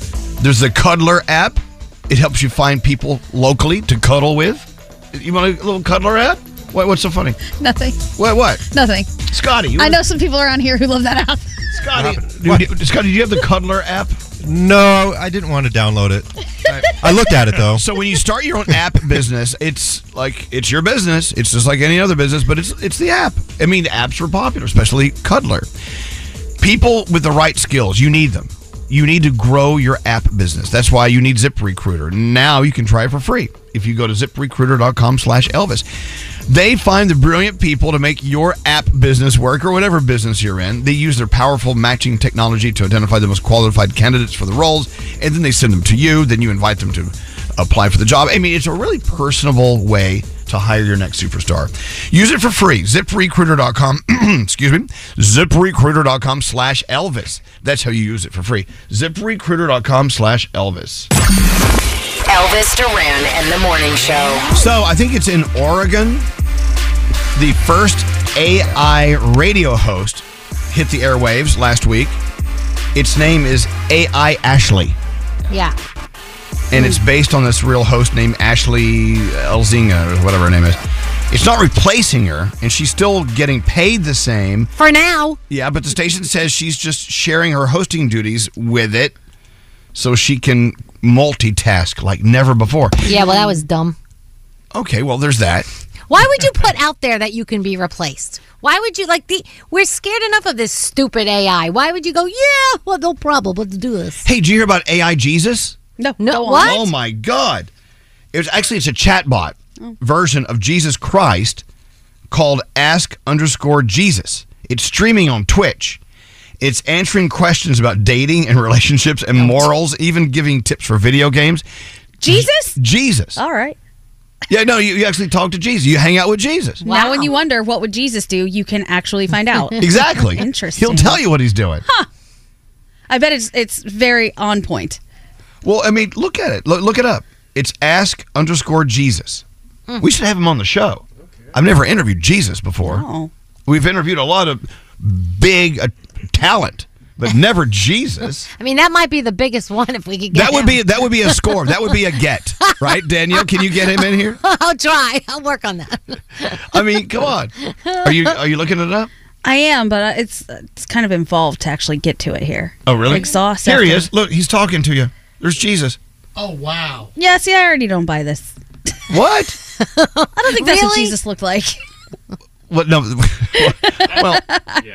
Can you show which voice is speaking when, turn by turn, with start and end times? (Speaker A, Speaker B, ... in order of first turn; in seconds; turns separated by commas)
Speaker A: 0.4-7.4, Speaker B: 7.6-8.1, Speaker A: 8.2-8.6, Speaker B: 8.7-9.1, Speaker A: 9.3-10.0, Speaker B: 9.8-11.5, Speaker A: 11.7-14.2, Speaker C: 11.9-12.7, Speaker C: 14.4-16.3, Speaker A: 16.6-17.0, Speaker C: 16.9-17.8, Speaker A: 17.7-25.7, Speaker A: 26.6-35.9, Speaker A: 36.5-61.1, Speaker D: 62.3-64.5, Speaker A: 64.5-66.3, Speaker A: 67.3-72.2, Speaker A: 72.9-75.0, Speaker E: 75.5-75.7, Speaker A: 76.7-80.8, Speaker A: 81.3-84.7, Speaker E: 84.8-85.4, Speaker A: 85.5-89.2, Speaker A: 89.9-93.2, Speaker E: 93.0-94.0, Speaker A: 94.7-95.7, Speaker E: 96.1-104.2, Speaker A: 104.2-105.8, Speaker B: 106.0-106.9, Speaker E: 106.2-106.9, Speaker A: 106.5-107.7, Speaker A: 108.3-111.6, Speaker A: 112.3-116.0, Speaker A: 116.6-121.6, Speaker E: 119.4-119.6, Speaker B: 122.2-122.8, Speaker A: 122.2-123.4, Speaker B: 123.3-123.8, Speaker A: 124.5-126.8, Speaker E: 126.8-127.4, Speaker B: 126.8-131.2, Speaker A: 129.8-131.8, Speaker B: 133.1-135.0, Speaker A: 135.6-139.4, Speaker A: 140.0-143.1, Speaker B: 142.8-143.3, Speaker A: 143.7-148.5, Speaker E: 148.5-151.9, Speaker A: 150.3-154.4, Speaker E: 153.3-156.8, Speaker A: 156.7-157.5, Speaker E: 157.7-158.3, Speaker A: 158.0-159.1, Speaker B: 159.4-164.1, Speaker A: 162.8-166.0, Speaker B: 167.2-168.5, Speaker A: 169.1-169.6, Speaker E: 169.8-171.2, Speaker B: 170.4-171.8, Speaker A: 172.7-174.4, Speaker B: 173.7-174.8